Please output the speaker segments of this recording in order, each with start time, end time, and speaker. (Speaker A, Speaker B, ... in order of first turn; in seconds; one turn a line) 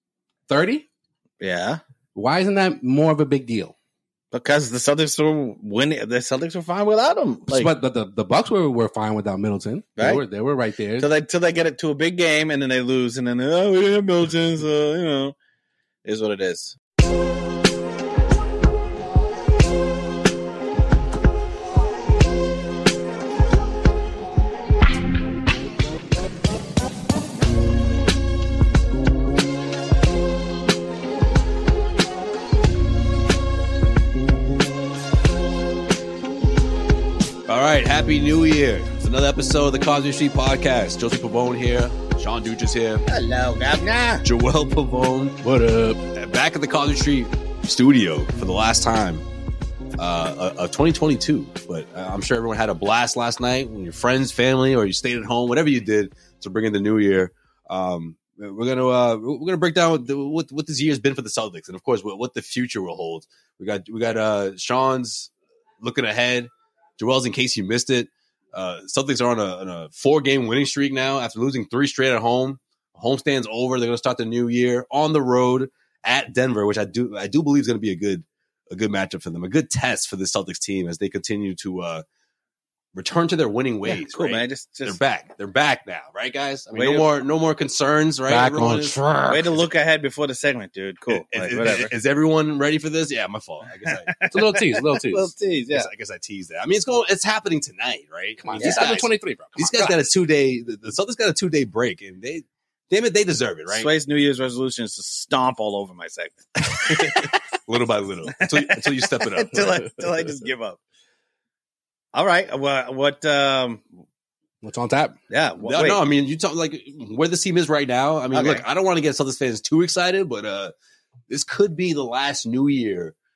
Speaker A: 0.5-0.9
Speaker B: 1.4-1.8
Speaker A: 2.1-3.8
Speaker B: 4.3-7.7
Speaker A: 7.5-11.1
Speaker B: 10.0-10.2
Speaker B: 11.0-15.3
Speaker B: 16.1-16.8
Speaker C: 37.5-43.0
Speaker B: 43.1-44.2
Speaker C: 44.2-45.4
Speaker A: 45.4-46.0
Speaker C: 46.1-49.3
Speaker C: 50.0-82.0
Speaker C: 82.9-89.0
Speaker B: 83.9-85.0
Speaker B: 86.7-87.1
Speaker A: 88.3-89.6
Speaker B: 89.3-91.9
Speaker C: 91.1-94.1
Speaker B: 93.9-95.9
Speaker A: 94.3-95.3
Speaker C: 95.7-103.9
Speaker A: 98.4-100.0
Speaker B: 98.6-99.0
Speaker B: 103.7-107.4
Speaker C: 106.7-109.8
Speaker B: 108.3-110.8
Speaker B: 112.1-113.8
Speaker A: 114.6-115.2
Speaker B: 115.3-116.0
Speaker C: 115.6-120.7
Speaker B: 118.3-118.6
Speaker C: 121.3-123.2